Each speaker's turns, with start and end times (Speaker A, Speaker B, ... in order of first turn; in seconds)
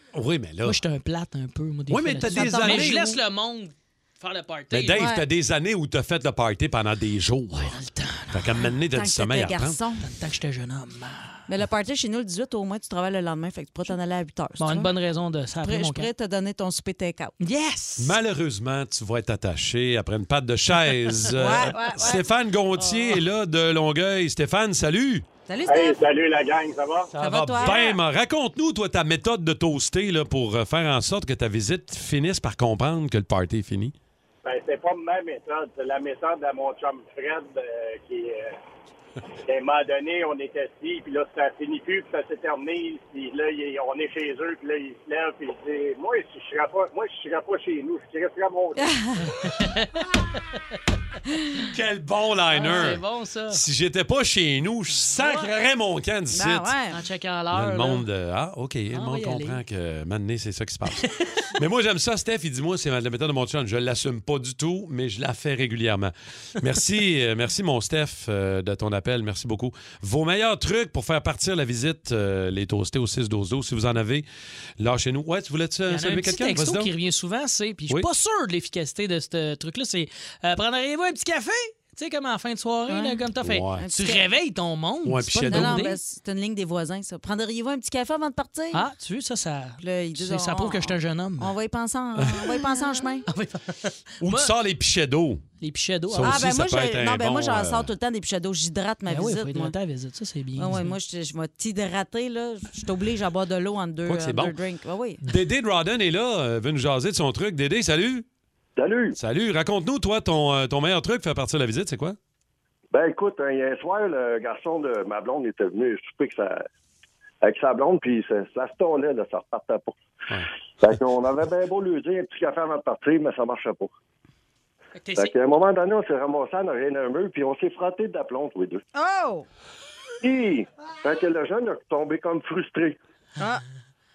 Speaker A: 0.1-0.8, 1.9-3.2, 4.7-7.7, 8.3-9.8, 18.0-25.2, 27.1-33.9, 51.6-56.8, 57.5-74.3, 74.8-76.9, 83.4-83.8, 85.0-85.9, 94.2-95.4, 96.1-97.9, 104.1-104.6, 105.2-108.2, 109.2-112.2
Speaker B: 0.6-5.1, 7.5-8.7, 10.0-11.5, 14.6-16.1, 17.4-18.2, 22.8-23.2, 49.5-49.9, 52.5-53.6, 55.0-55.5, 56.9-58.1, 58.9-59.6, 61.0-61.2, 75.9-86.0, 88.7-91.5, 93.3-94.5, 95.6-96.5, 99.1-100.9, 125.0-125.3
Speaker C: 2.2-3.1, 4.9-5.2, 8.9-10.0, 11.5-14.9, 15.6-17.3, 21.3-22.2, 25.5-26.0, 27.2-28.0, 48.8-49.2, 56.3-57.0, 82.9-83.2, 83.8-84.2, 85.5-88.8, 89.8-93.3, 96.2-99.7, 100.6-105.2, 128.9-129.5
Speaker D: 25.7-27.1, 34.5-38.6, 39.5-48.8
Speaker E: 108.8-109.2, 112.9-116.6, 117.4-120.0, 120.8-123.9, 125.2-128.8, 130.2-133.0